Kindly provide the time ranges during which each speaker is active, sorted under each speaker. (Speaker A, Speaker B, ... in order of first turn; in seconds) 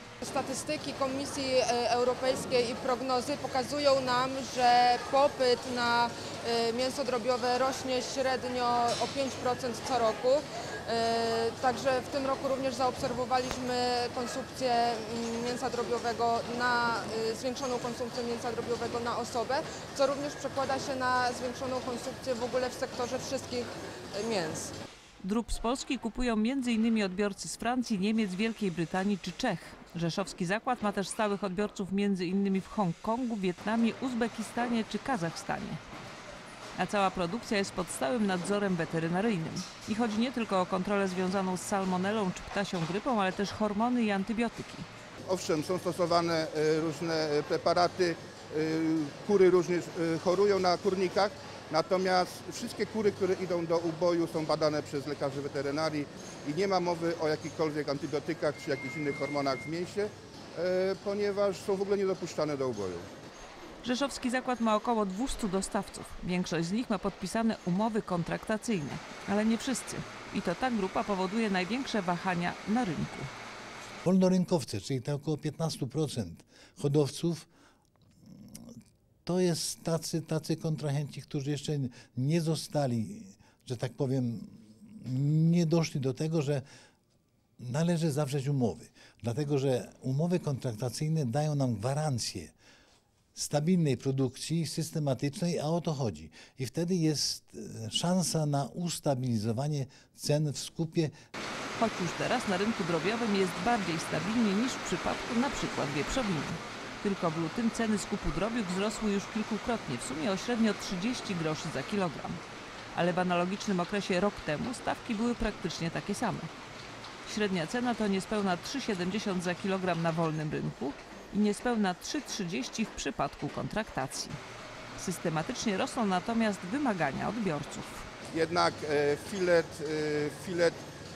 Speaker A: 0.2-24.7
Speaker B: 25.2-35.8, 36.8-44.9, 63.8-73.3, 101.8-112.4, 112.9-116.5, 117.2-124.4, 125.0-128.1
Speaker C: 45.3-63.1, 128.3-130.8
Speaker D: 74.0-77.5, 79.3-86.6, 87.6-92.5, 93.3-101.1